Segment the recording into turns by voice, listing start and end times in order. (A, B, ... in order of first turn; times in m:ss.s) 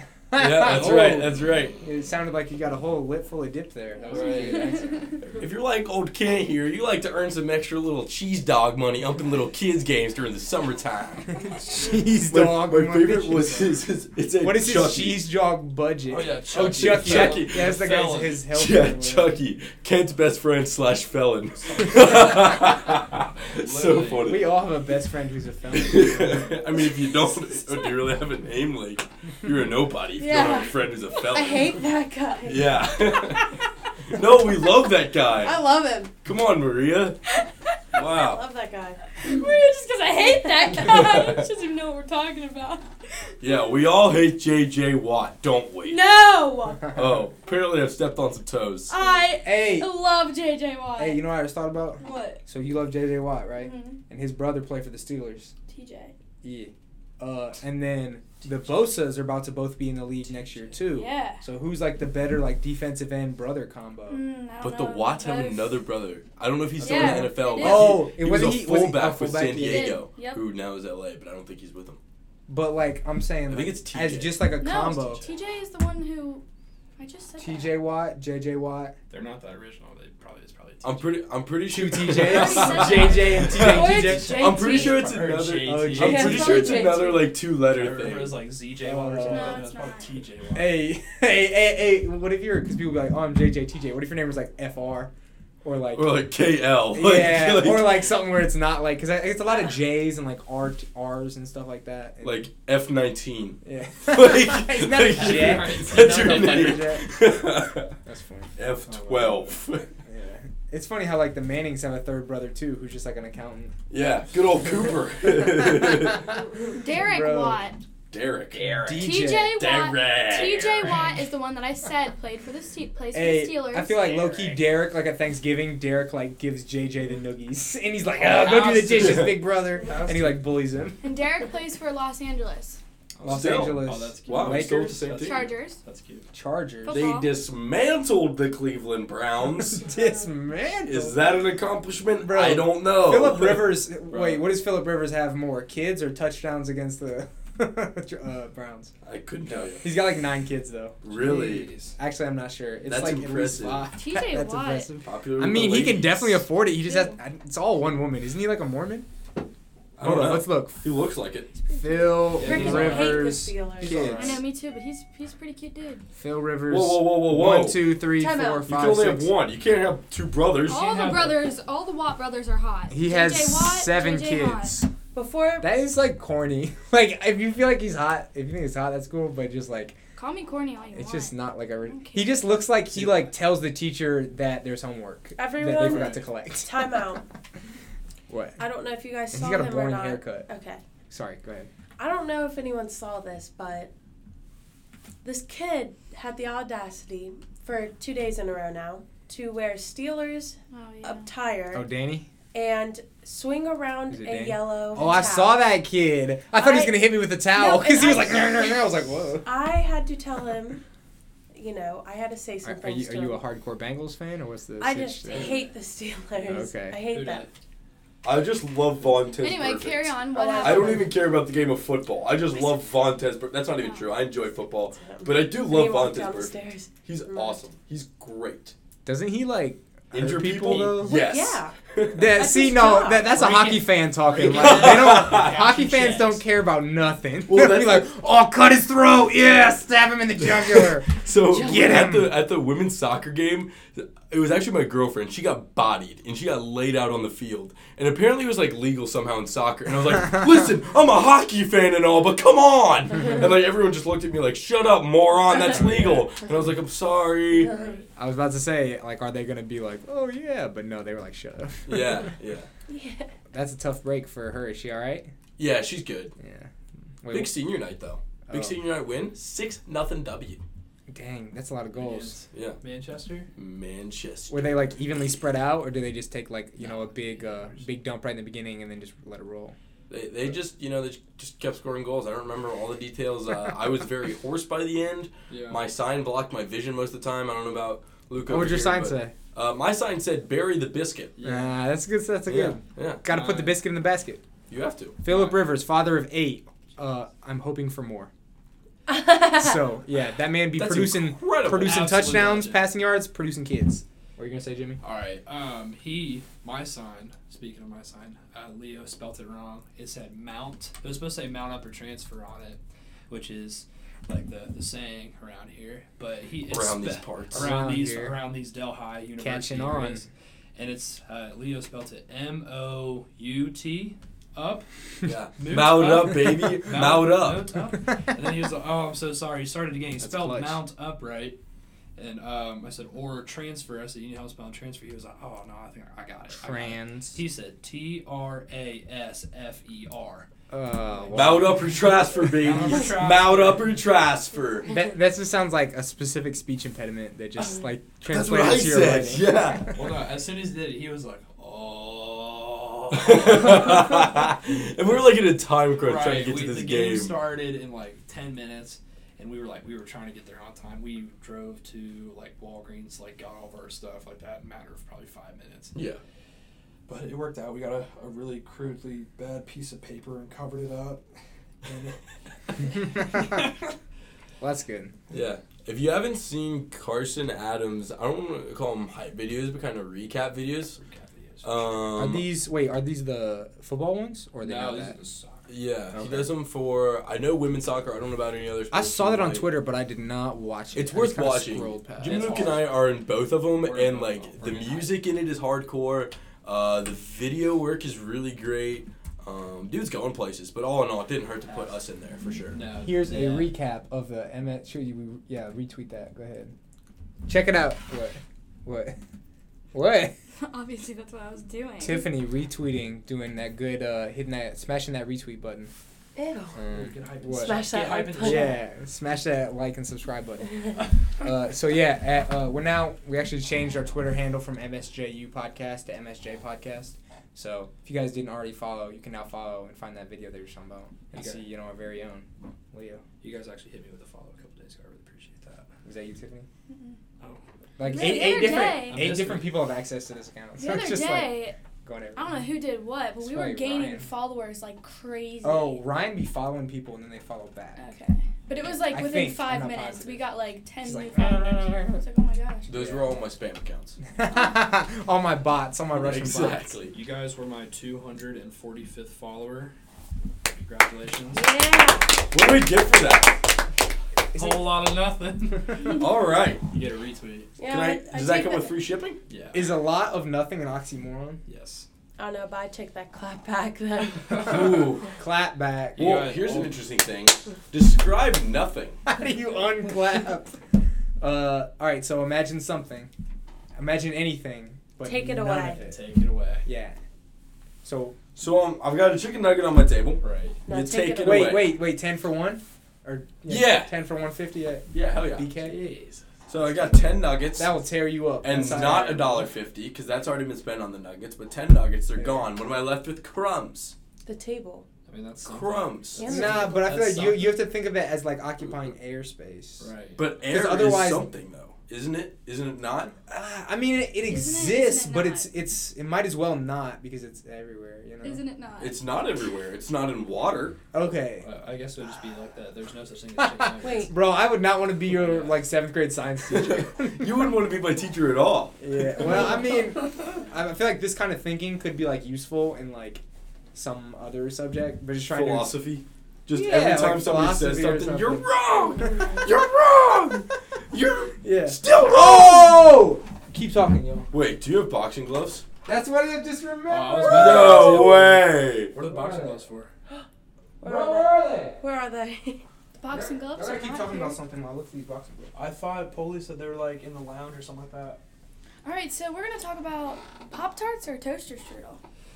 0:00.3-0:05.2 A
0:00.4-0:01.8 B
0:04.0-0:05.2 C
0:04.1-0:04.8 D
0:05.4-0:11.3 B
0:11.3-0:13.7 A
0:12.3-0:15.3 B
0:14.4-0:19.4 A
0:16.1-0:18.4 D
0:16.7-0:17.8 B
0:18.5-0:24.6 B
0:21.8-0:22.7 D
0:23.2-0:24.4 D
0:24.2-0:27.0 A
0:25.7-0:31.8 B
0:30.2-0:31.2 C
0:30.2-0:33.2 E
0:32.4-0:35.6 B
0:35.4-0:36.2 E
0:36.2-0:37.2 B
0:37.9-0:38.4 B
0:38.0-0:39.5 E
0:39.2-0:43.6 C
0:40.2-0:41.0 E
0:43.4-0:46.0 B
0:45.8-0:46.9 C
0:46.9-0:49.0 B
0:48.9-0:51.3 C
0:49.4-0:50.0 A
0:51.0-0:55.5 A
0:52.0-0:52.4 C
0:53.5-0:54.0 C
0:55.7-0:56.1 C
0:56.4-1:04.2 A
0:58.4-0:58.9 D
1:00.2-1:00.8 D
1:00.8-1:01.4 C
1:04.1-1:05.8 C
1:04.6-1:12.0 B
1:06.8-1:08.0 C
1:06.8-1:07.2 D
1:06.9-1:10.0 A
1:09.6-1:10.4 C
1:12.5-1:15.3 A
1:13.5-1:14.5 B
1:14.6-1:16.4 C
1:17.0-1:17.7 C
1:17.4-1:19.0 A
1:19.1-1:21.1 D
1:20.8-1:28.4 B
1:21.7-1:24.5 A
1:22.2-1:25.1 C
1:22.8-1:26.4 D
1:24.0-1:25.0 E
1:25.6-1:26.8 A
1:26.0-1:27.3 E
1:26.5-1:27.1 C
1:27.7-1:30.8 D
1:28.8-1:29.7 A
1:29.2-1:30.2 C
1:30.5-1:35.1 A
1:35.6-1:36.2 A
1:35.9-1:38.1 B
1:36.9-1:42.4 A
1:42.2-1:47.9 B
1:43.6-1:47.2 A
1:45.1-1:46.8 D
1:48.0-1:48.5 A
1:48.6-1:49.9 B
1:48.9-1:49.5 D
1:50.1-1:53.7 A
1:53.9-1:56.2 B
1:55.5-1:56.0 A
1:56.7-1:57.8 C
1:56.9-1:57.6 A
1:58.1-2:01.1 B
1:58.8-1:59.6 A
1:59.0-2:04.6 C
2:03.1-2:11.1 A
2:08.2-2:10.6 D
2:09.0-2:09.4 B
2:11.0-2:12.8 C
2:13.2-2:16.3 D
2:13.2-2:15.1 A
2:13.3-2:15.5 B
2:15.2-2:15.8 C
2:16.3-2:17.0 A
2:16.8-2:17.3 C
2:16.9-2:19.8 B
2:19.6-2:21.2 A
2:19.9-2:20.3 C
2:20.8-2:24.4 B
2:22.2-2:28.9 A
2:29.0-2:29.9 B
2:29.5-2:29.8 D
2:29.8-2:39.1 A
2:31.0-2:31.7 B
2:31.1-2:32.0 D
2:32.8-2:33.9 B
2:33.9-2:34.9 C
2:35.0-2:36.4 B
2:36.8-2:37.2 C
2:40.0-2:41.5 B
2:40.0-2:40.8 A
2:41.7-2:44.5 A
2:42.3-2:44.2 E
2:42.3-2:44.4 D
2:44.2-2:46.0 C
2:46.2-2:49.3 A
2:46.7-2:47.8 B
2:48.0-2:48.7 C
2:48.6-2:50.8 B
2:50.7-2:54.8 C
2:50.7-2:51.5 D
2:52.9-2:54.9 A
2:55.1-2:55.7 E
2:55.6-3:00.0 A
3:00.2-3:02.6 C
3:00.9-3:07.1 A
3:02.9-3:03.2 B
3:05.4-3:07.2 E
3:05.9-3:06.2 D
3:08.3-3:08.6 A
3:08.6-3:10.8 E
3:09.3-3:10.5 A
3:11.1-3:11.7 A
3:12.0-3:13.9 E
3:15.2-3:21.9 E
3:20.7-3:21.3 C
3:21.7-3:22.3 A
3:22.5-3:25.6 E
3:24.1-3:29.5 A
3:26.5-3:30.8 E
3:31.5-3:33.4 E
3:32.6-3:35.6 A
3:34.8-3:37.5 E
3:35.3-3:35.6 D
3:36.4-3:37.0 A
3:37.1-3:37.5 D
3:38.2-3:48.8 B
3:39.4-3:41.1 C
3:40.3-3:41.2 E
3:43.8-3:44.1 C
3:45.0-3:47.6 E
3:49.0-3:51.2 A
3:50.1-3:52.4 B
3:51.0-3:51.8 E
3:52.1-4:02.4 A
3:52.3-3:53.4 E
3:53.3-3:56.4 D
3:54.3-3:55.7 B
3:57.5-3:58.1 B
4:00.4-4:17.7 B
4:15.6-4:16.1 D
4:17.5-4:18.0 E
4:18.2-4:22.3 A
4:21.9-4:22.7 B
4:22.9-4:23.3 E
4:23.5-4:25.3 A
4:25.6-4:26.3 B
4:26.4-4:26.7 A
4:27.2-4:27.6 A
4:27.3-4:30.6 B
4:28.5-4:28.8 A
4:31.1-4:32.4 A
4:31.9-4:33.5 D
4:32.5-4:32.8 B
4:33.6-4:35.0 B
4:34.5-4:39.8 A
4:36.8-4:37.9 D
4:40.1-4:51.3 B
4:45.5-4:45.8 D
4:48.5-4:49.3 A
4:51.4-4:51.8 D
4:51.4-4:54.4 A
4:52.5-4:53.2 B
4:53.3-4:53.8 D
4:54.7-4:55.2 B
4:55.2-4:58.3 A
4:55.3-4:55.7 D
4:59.1-4:59.8 E
4:59.5-5:05.0 A
5:00.8-5:02.4 B
5:01.7-5:02.9 D
5:05.0-5:24.9 D
5:16.7-5:17.7 B
5:17.5-5:18.4 A
5:19.4-5:20.2 A
5:25.2-5:27.7 B
5:25.6-5:31.6 D
5:30.2-5:30.8 A
5:32.2-5:40.5 D
5:36.6-5:37.4 A
5:40.7-5:41.9 A
5:41.1-5:41.9 D
5:41.3-5:44.9 B
5:42.4-5:44.0 D
5:44.9-5:49.9 A
5:48.2-5:50.0 B
5:49.9-5:54.4 D
5:53.1-5:57.4 B
5:56.0-6:06.0 D
6:06.0-6:06.2 B
6:07.1-6:11.2 D
6:11.8-6:13.6 D
6:13.2-6:13.6 A
6:14.6-6:15.1 A
6:15.3-6:21.0 B
6:21.0-6:21.9 D
6:21.6-6:22.5 B
6:22.2-6:25.2 A
6:24.6-6:25.7 D
6:25.7-6:29.7 B
6:26.1-6:26.5 A
6:28.9-6:32.7 A
6:31.0-6:42.8 B
6:32.2-6:33.0 D
6:33.8-6:35.2 D
6:41.7-6:42.0 D
6:42.7-6:43.7 D
6:43.0-6:46.7 A
6:47.5-6:49.2 A
6:49.9-6:50.3 A
6:50.6-6:52.3 C
6:52.0-6:55.9 A
6:56.4-6:56.8 E
6:56.8-7:13.2 A
6:56.9-6:58.8 D
6:57.5-6:58.8 E
7:11.3-7:11.7 D
7:13.4-7:15.9 D
7:16.0-7:16.7 A
7:16.9-7:17.2 C
7:17.4-7:19.9 D
7:18.0-7:22.6 A
7:18.0-7:19.3 C
7:20.8-7:21.8 C
7:22.4-7:26.0 C
7:23.4-7:24.3 A
7:25.6-7:28.1 A
7:28.0-7:33.2 C
7:28.8-7:30.5 A
7:31.0-7:32.2 A
7:32.9-7:34.2 B
7:34.3-7:37.0 A
7:36.1-7:37.2 B
7:37.1-7:39.9 D
7:40.8-7:41.7 D
7:41.5-7:42.4 E
7:42.5-7:43.6 B
7:44.5-7:44.9 A
7:44.5-7:46.3 D
7:46.1-7:46.8 B
7:46.8-7:47.7 D
7:47.8-7:49.0 E
7:47.8-7:49.4 B
7:49.5-7:50.0 D
7:49.7-7:51.6 A
7:51.7-7:52.1 D
7:52.4-7:54.8 E
7:54.6-7:55.3 B
7:55.4-7:56.5 A
7:56.2-7:57.0 D
7:56.2-7:59.2 B
7:59.3-8:00.8 A
8:01.4-8:03.3 A
8:04.0-8:06.2 A
8:05.2-8:06.0 E
8:05.9-8:06.9 D
8:06.8-8:07.2 A
8:08.0-8:08.4 A
8:08.6-8:11.9 B
8:10.4-8:10.8 D
8:10.9-8:11.9 E
8:11.4-8:16.0 A
8:13.7-8:14.1 B
8:15.1-8:15.7 B
8:15.8-8:16.4 D
8:16.7-8:18.0 B
8:17.0-8:19.7 A
8:18.6-8:24.2 B
8:22.4-8:22.7 A
8:24.5-8:25.0 E
8:25.3-8:27.8 D
8:25.6-8:26.5 B
8:26.4-8:27.1 E
8:26.4-8:30.1 A
8:30.0-8:30.5 D
8:30.4-8:33.4 B
8:30.6-8:31.5 A
8:33.5-8:38.6 A
8:34.4-8:35.7 C
8:38.4-8:39.2 C
8:39.0-8:41.0 B
8:41.1-8:41.7 A
8:41.6-8:44.4 D
8:43.6-8:47.7 A
8:44.0-8:44.3 E
8:45.3-8:45.9 D
8:46.7-8:49.0 B
8:49.0-8:53.4 A
8:53.9-8:56.0 A
8:55.5-9:03.0 B
8:56.7-8:58.7 A
9:01.6-9:04.5 A
9:04.5-9:05.8 B
9:06.0-9:08.4 A
9:07.1-9:10.1 D
9:07.4-9:09.1 B
9:09.2-9:09.8 A
9:11.0-9:12.8 E
9:11.0-9:12.0 A
9:13.2-9:14.6 C
9:13.3-9:15.7 A
9:15.7-9:18.4 D
9:19.0-9:22.2 C